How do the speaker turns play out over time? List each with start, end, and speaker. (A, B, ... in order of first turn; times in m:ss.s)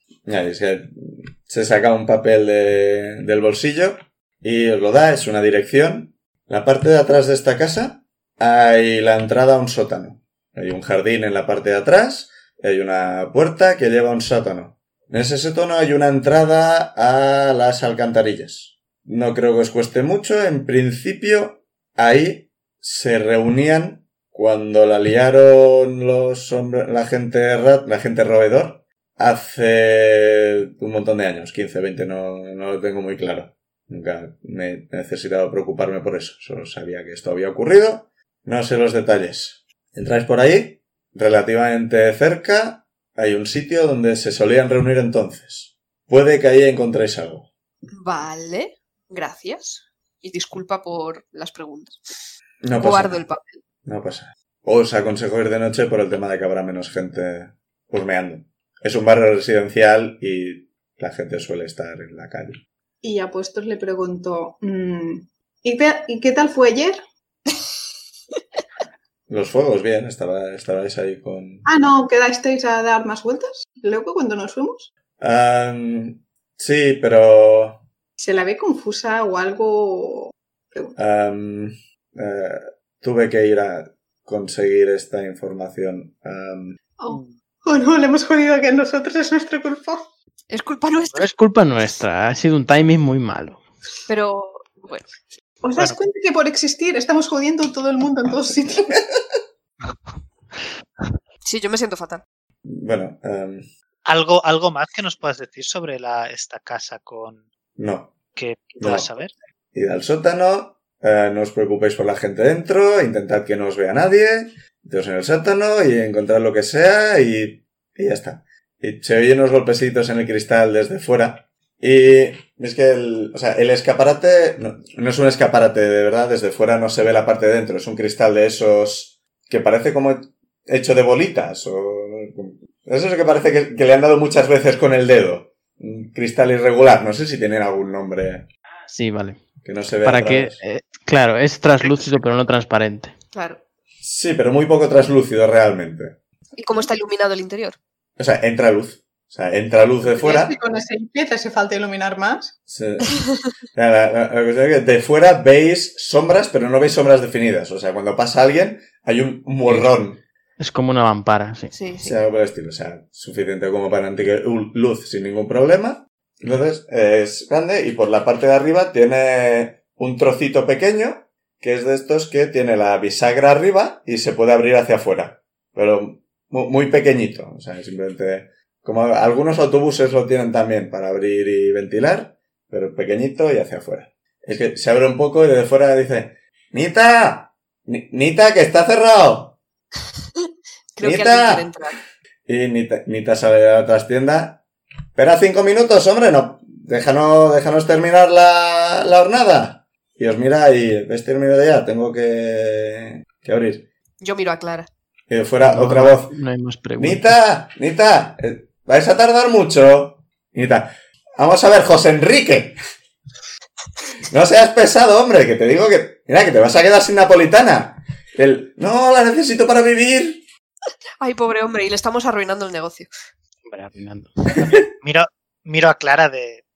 0:00.3-0:47.5 A
0:48.0-0:52.0 B
0:52.6-0:53.2 A
0:52.7-0:53.6 B
0:53.8-1:02.6 A
1:03.0-1:07.0 C
1:09.3-1:11.7 A
1:11.7-1:14.9 C
1:15.2-1:17.8 A
1:18.2-1:21.0 C
1:21.0-1:26.8 A
1:27.0-1:30.1 C
1:30.5-1:31.3 B
1:31.1-1:33.6 D
1:34.1-1:35.1 B
1:35.6-1:39.0 C
1:41.4-1:42.2 B
1:42.6-1:43.6 A
1:44.0-1:47.4 E
1:47.8-1:48.2 A
1:48.4-1:49.3 E
1:48.8-1:49.1 A
1:49.7-2:18.5 A
2:18.9-2:19.4 D
2:19.6-2:20.6 A
2:20.0-2:23.2 D
2:21.8-2:22.1 E
2:23.3-2:23.6 B
2:24.0-2:26.2 A
2:26.6-2:27.8 B
2:28.2-2:30.6 A
2:30.2-2:32.5 C
2:32.7-2:33.2 A
2:33.7-2:40.2 A
2:39.7-2:39.9 D
2:40.6-2:41.7 D
2:41.7-2:42.2 B
2:42.0-3:09.6 A
3:11.0-3:12.0 B
3:11.0-3:11.7 A
3:12.5-3:14.6 A
3:15.2-3:23.9 A
3:24.2-3:24.9 B
3:25.3-3:26.3 A
3:25.6-3:27.4 D
3:27.0-3:32.8 A
3:34.3-3:40.4 A
3:41.2-3:43.1 B
3:43.7-3:44.6 D
3:45.0-3:46.6 E